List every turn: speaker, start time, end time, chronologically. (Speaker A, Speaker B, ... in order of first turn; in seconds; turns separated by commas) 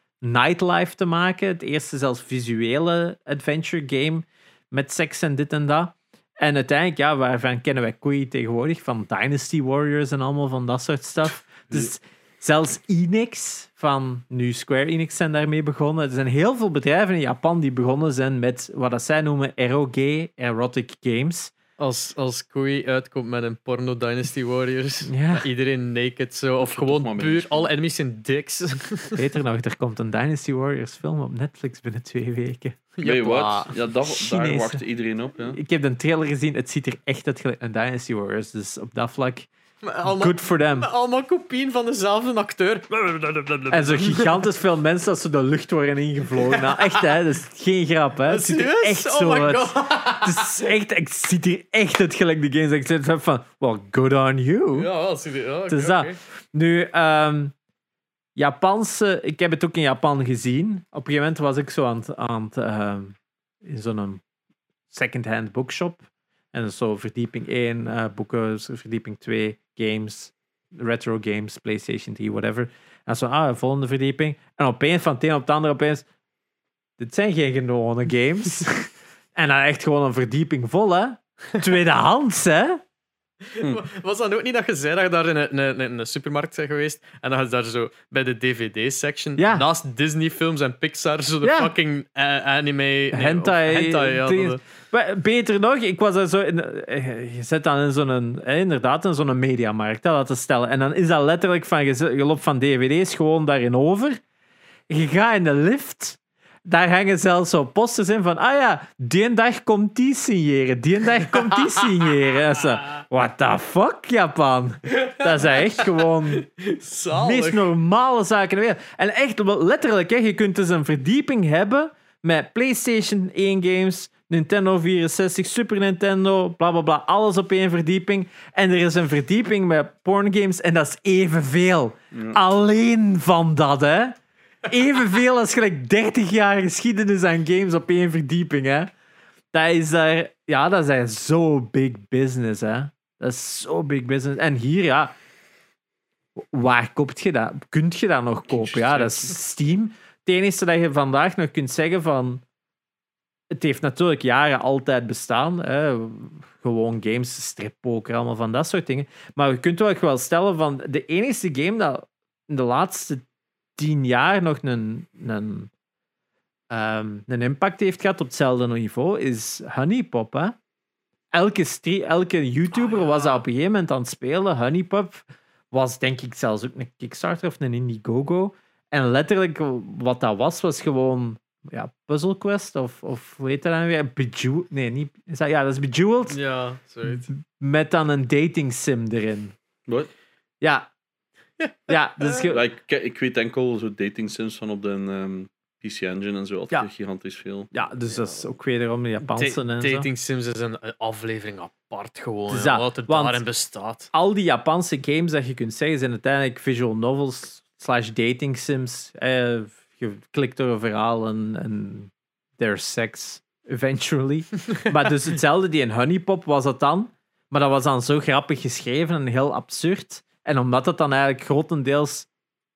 Speaker A: 0.2-21.5, Speaker B: 21.8-29.2, Speaker A: 25.1-25.5, Speaker C: 26.6-27.7, Speaker A: 29.1-32.8, Speaker B: 33.0-33.7, Speaker C: 33.0-35.6, Speaker A: 34.1-34.8, Speaker A: 35.5-39.5, Speaker B: 39.8-44.5, Speaker A: 40.0-40.9, Speaker A: 43.7-54.9, Speaker B: 46.4-47.0, Speaker B: 48.3-50.6, Speaker B: 54.7-56.2, Speaker A: 55.7-57.5, Speaker A: 58.4-64.2, Speaker A: 64.9-66.0, Speaker A: 66.5-76.0, Speaker A: 77.0-82.8, Speaker B: 83.5-94.6, Speaker A: 89.4-89.7, Speaker A: 91.4-91.7, Speaker A: 93.1-104.2, Speaker A: 104.9-116.5, Speaker B: 111.5-111.8, Speaker B: 114.9-117.7, Speaker A: 117.1-138.9, Speaker A: 139.5-145.1, Speaker A: 146.4-152.4, Speaker C: 148.6-149.3, Speaker A: 153.5-163.2, Speaker A: 163.8-165.7, Speaker A: 166.7-170.6, Speaker A: 171.3-186.4, Speaker B: 172.7-173.4, Speaker B: 186.3-187.3, Speaker A: 187.1-189.6, Speaker A: 190.6-190.9, Speaker B: 191.6-192.5, Speaker A: 191.9-192.6, Speaker C: 192.5-197.7, Speaker A: 197.7-200.1, Speaker B: 199.2-204.1, Speaker A: 202.5-203.4, Speaker A: 204.1-222.3